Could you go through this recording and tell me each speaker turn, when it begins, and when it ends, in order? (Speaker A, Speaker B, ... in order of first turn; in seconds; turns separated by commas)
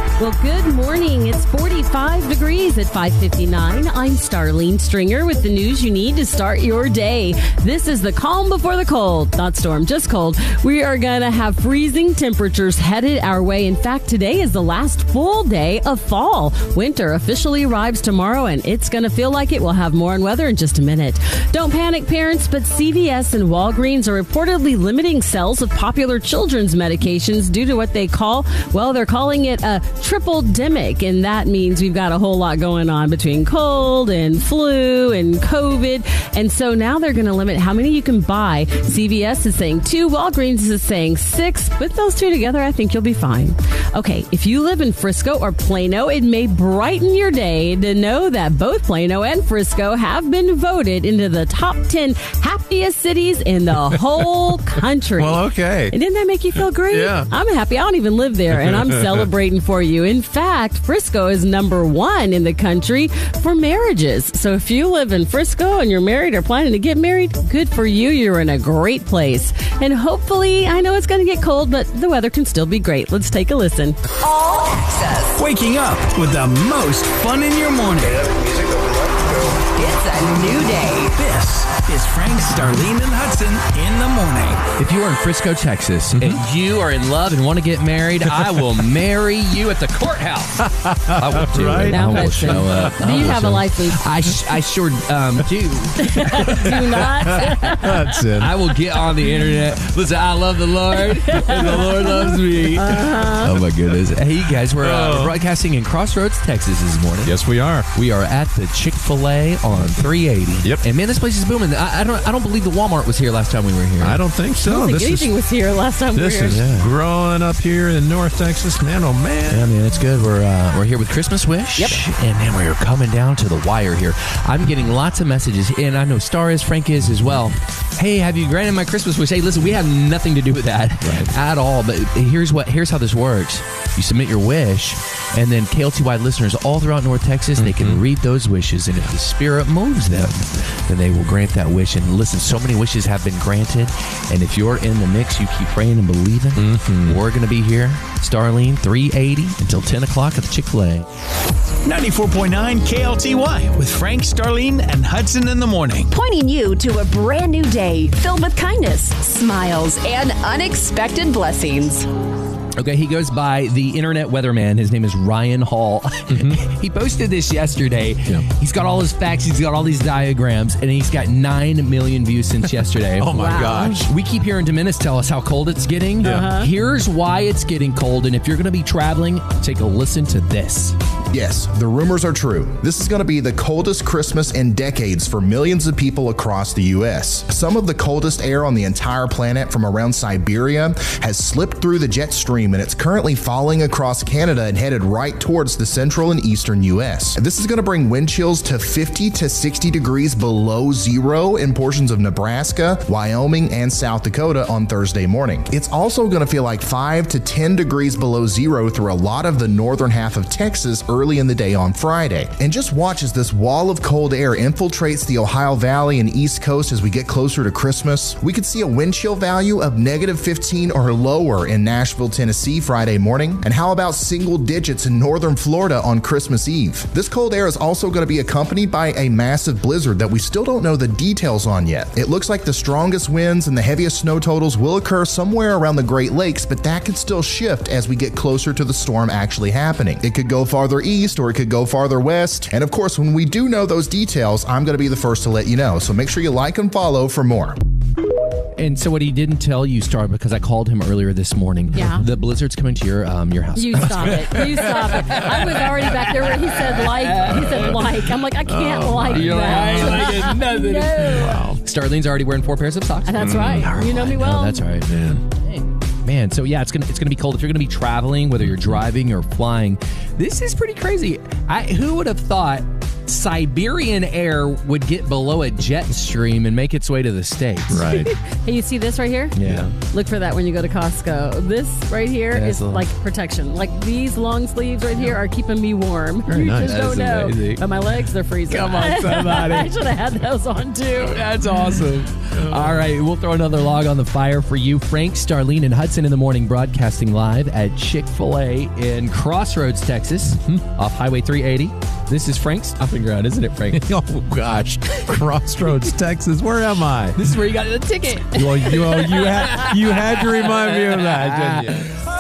Speaker A: 0.2-74.0, Speaker B: 55.1-55.9, Speaker B: 56.9-57.3, Speaker B: 58.7-59.2, Speaker C: 74.2-75.5, Speaker D: 75.3-78.3, Speaker C: 79.6-81.2, Speaker D: 81.2-84.6, Speaker E: 84.8-97.4, Speaker B: 90.8-93.3, Speaker A: 91.8-94.0, Speaker A: 96.0-98.2, Speaker B: 96.5-98.5, Speaker E: 98.3-107.3, Speaker A: 101.0-103.6, Speaker B: 104.8-105.3, Speaker B: 107.2-107.8, Speaker E: 107.9-114.2, Speaker B: 114.0-115.3, Speaker A: 114.6-116.6, Speaker B: 116.1-119.7, Speaker E: 116.5-116.9, Speaker E: 119.5-151.1, Speaker B: 131.0-131.3, Speaker B: 137.6-138.0, Speaker B: 146.6-147.2, Speaker D: 151.8-156.1, Speaker C: 156.1-162.1, Speaker E: 162.7-180.9, Speaker B: 166.3-166.6, Speaker B: 172.8-174.1, Speaker A: 173.3-174.0, Speaker B: 176.2-176.5, Speaker A: 176.2-176.7, Speaker F: 181.3-247.8, Speaker E: 248.8-258.0, Speaker A: 251.9-252.2, Speaker A: 253.8-261.6, Speaker B: 258.7-260.3, Speaker E: 259.2-278.1, Speaker B: 261.3-261.8, Speaker A: 263.2-264.8, Speaker B: 263.4-263.8, Speaker B: 265.1-265.4, Speaker B: 277.9-278.3, Speaker A: 278.0-291.4, Speaker E: 279.5-279.9, Speaker B: 279.6-279.9, Speaker E: 282.5-283.1, Speaker B: 286.5-287.0, Speaker E: 286.8-287.8, Speaker E: 288.7-289.9, Speaker E: 291.2-304.0, Speaker B: 303.9-307.4, Speaker E: 307.3-312.1, Speaker B: 308.5-312.1